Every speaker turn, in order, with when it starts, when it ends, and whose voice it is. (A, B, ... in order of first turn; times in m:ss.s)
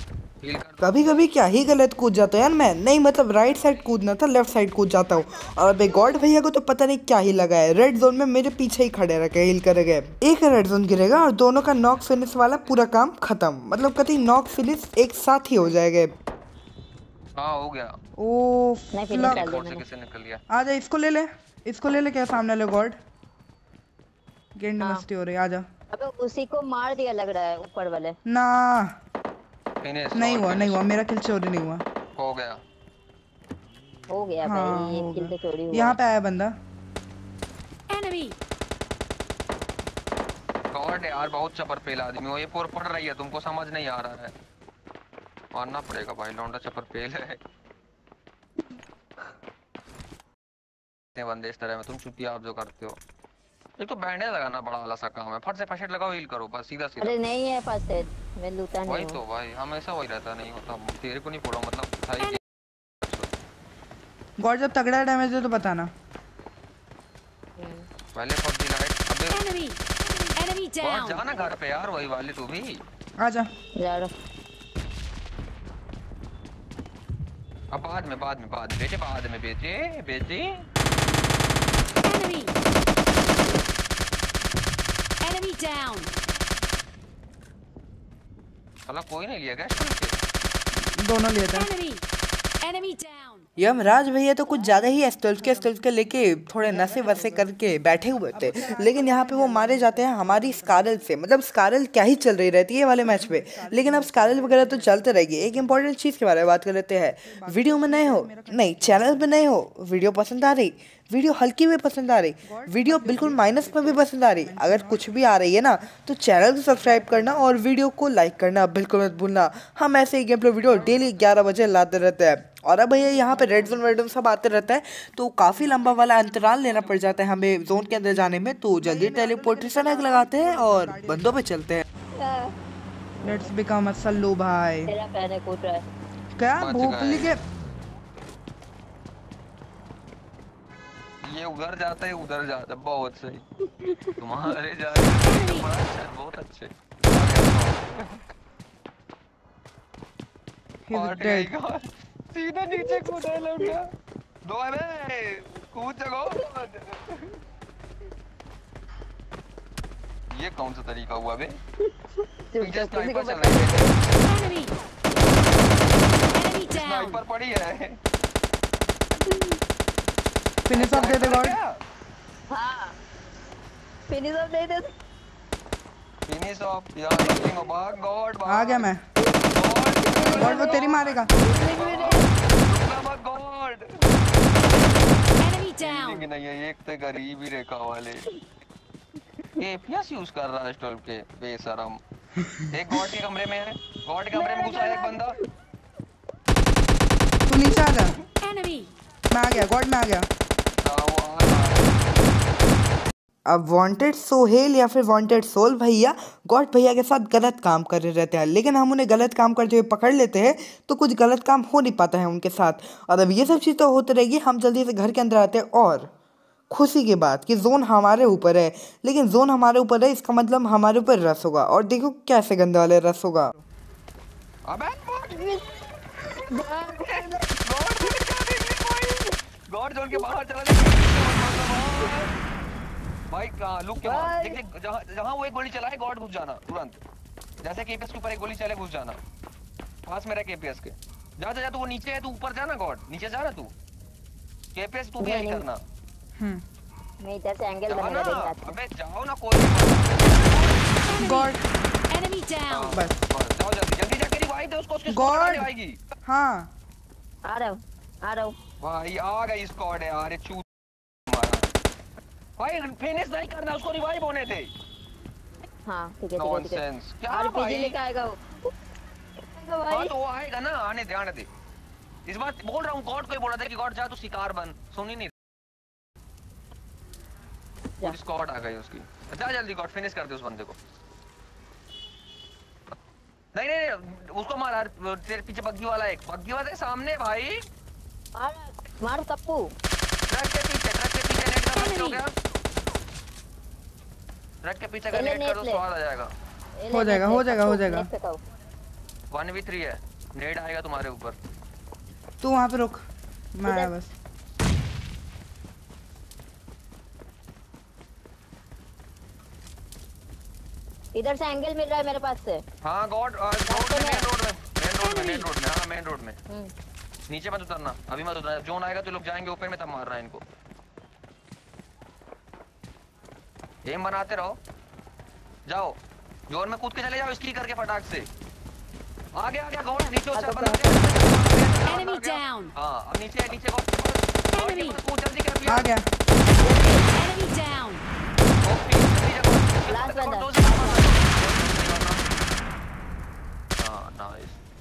0:00.4-0:01.3 A
0:00.8-0:16.1 B
0:11.9-0:12.8 A
0:17.4-0:17.9 A
0:18.2-0:19.6 C
0:18.9-0:19.8 D
0:19.2-0:20.4 A
0:20.5-0:23.0 C
0:24.6-0:25.6 C
0:25.9-0:28.2 D
0:28.3-0:28.9 C
0:29.8-0:30.8 A
0:30.1-0:31.8 C
0:32.2-0:32.6 A
0:34.1-0:36.0 D
0:34.4-0:36.5 C
0:37.9-0:38.3 E
0:40.7-0:44.3 A
0:45.5-0:47.4 A
0:51.1-0:53.0 A
0:53.8-0:57.2 A
0:57.0-0:59.2 D
0:58.9-1:02.4 A
1:03.0-1:03.3 A
1:04.4-1:05.9 C
1:07.6-1:07.9 D
1:08.1-1:12.8 A
1:13.2-1:13.5 C
1:13.8-1:14.1 D
1:17.7-1:20.6 A
1:22.1-1:22.4 E
1:25.2-1:26.1 E
1:28.9-1:30.2 A
1:31.0-1:31.7 C
1:32.6-1:33.4 E
1:33.6-2:11.8 B
1:36.6-1:37.5 C
1:38.3-1:40.9 C
1:43.0-1:45.8 C
1:47.3-1:49.3 C
1:52.4-1:55.1 C
1:56.8-1:57.5 C
2:00.7-2:01.2 A
2:03.2-2:03.9 C
2:06.4-2:07.2 A
2:08.8-2:11.4 C
2:12.2-2:12.6 D
2:13.2-2:13.5 D
2:13.2-2:14.9 C
2:14.9-2:15.8 D
2:16.4-2:17.4 C
2:16.6-2:17.3 A
2:21.2-2:23.4 A
2:23.8-2:24.1 D
2:24.2-2:28.2 A
2:30.9-2:31.5 C
2:30.9-2:33.9 A
2:32.8-2:33.1 D
2:34.4-2:37.3 A
2:40.3-2:41.6 A
2:42.5-2:43.9 D
2:42.6-2:44.2 A
2:46.6-2:48.0 A
2:49.2-2:49.6 D
2:50.7-2:51.6 C
2:50.7-2:51.7 A
2:52.5-2:53.0 D
2:54.1-2:54.9 D
2:56.3-2:58.9 A
2:58.4-2:59.0 C
2:59.5-3:03.8 A
3:00.0-3:02.3 D
3:00.3-3:01.3 C
3:05.4-3:05.9 E
3:05.8-3:08.3 A
3:09.6-3:12.0 A
3:12.7-3:15.4 A
3:14.3-3:15.2 D
3:17.5-3:18.3 C
3:18.4-3:18.9 E
3:19.3-3:20.3 C
3:20.8-3:21.9 A
3:23.5-3:36.1 B
3:36.7-3:43.5 B
3:44.7-3:45.6 A
3:46.4-3:47.6 D
3:46.7-3:52.4 A
3:53.3-3:57.0 A
3:54.0-3:54.6 D
3:57.6-3:59.2 A
4:00.1-4:03.7 A
4:04.7-4:05.8 A
4:05.2-4:05.6 D
4:06.4-4:06.6 C
4:07.2-4:08.8 D
4:07.9-4:11.2 A
4:11.1-4:11.6 C
4:12.2-4:12.5 E
4:12.7-4:16.0 A
4:12.9-4:13.2 C
4:15.1-4:15.7 C
4:16.2-4:16.7 C
4:17.4-4:18.5 D
4:18.8-4:20.6 A
4:21.3-4:21.7 A
4:22.6-4:24.7 A
4:25.8-4:28.4 D
4:26.4-4:28.0 A
4:29.5-4:30.1 D
4:29.9-4:31.5 A
4:32.3-4:35.3 A
4:38.0-4:40.8 A
4:43.5-4:47.6 A
4:48.4-4:49.7 D
4:50.3-4:52.3 A
4:54.6-4:56.3 A
4:55.1-4:55.8 D
4:56.8-4:58.4 D
4:56.9-4:58.1 C
4:59.3-5:01.4 A
5:02.4-5:03.0 C
5:03.6-5:04.1 C
5:03.6-5:03.9 D
5:11.2-5:12.6 D
5:12.8-5:16.4 A
5:13.7-5:14.3 D
5:17.3-5:20.4 A
5:23.8-5:24.6 A
5:25.7-5:26.0 A
5:26.5-5:28.3 A
5:29.4-5:35.9 A
5:30.3-5:31.1 D
5:35.6-5:36.1 C
5:36.6-5:37.1 D
5:37.3-5:38.0 E
5:38.6-5:42.3 A
5:39.9-5:41.2 D
5:43.8-5:44.6 A